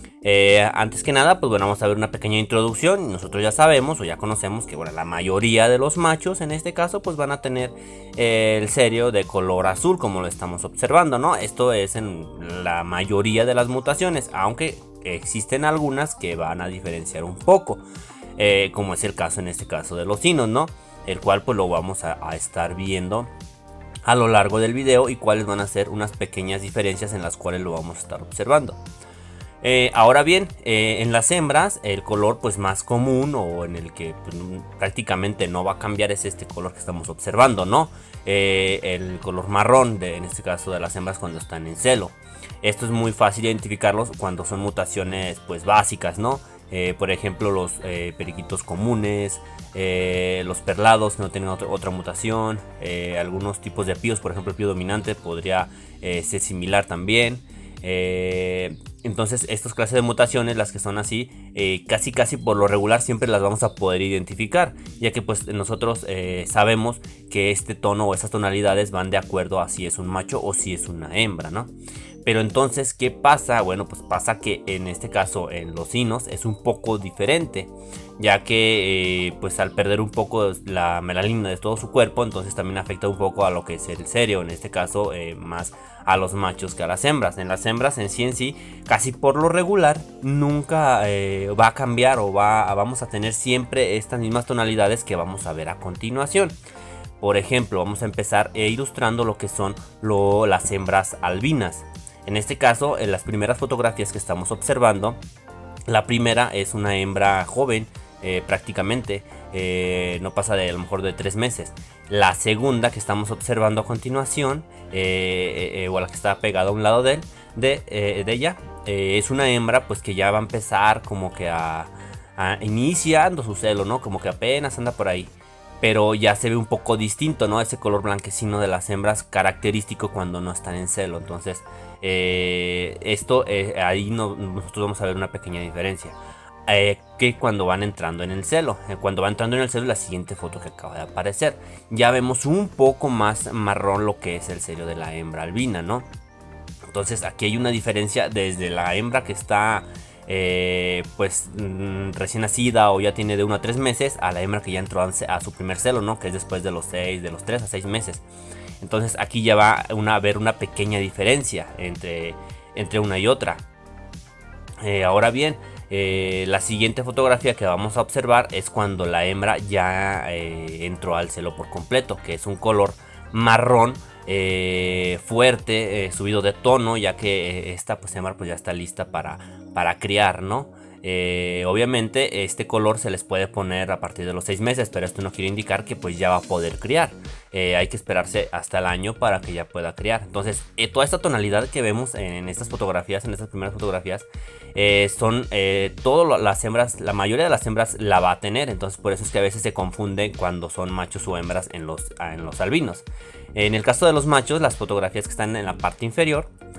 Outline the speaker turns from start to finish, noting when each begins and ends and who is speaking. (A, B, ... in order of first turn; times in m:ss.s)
0:00.2-0:17.8 A
0:18.4-0:23.3 A
0:24.0-0:28.8 A
0:29.6-1:11.7 A
1:12.2-1:36.6 A
1:37.2-1:45.2 A
1:45.9-2:26.1 A
2:26.9-2:38.2 A
2:38.8-2:43.6 A
2:44.8-3:26.5 A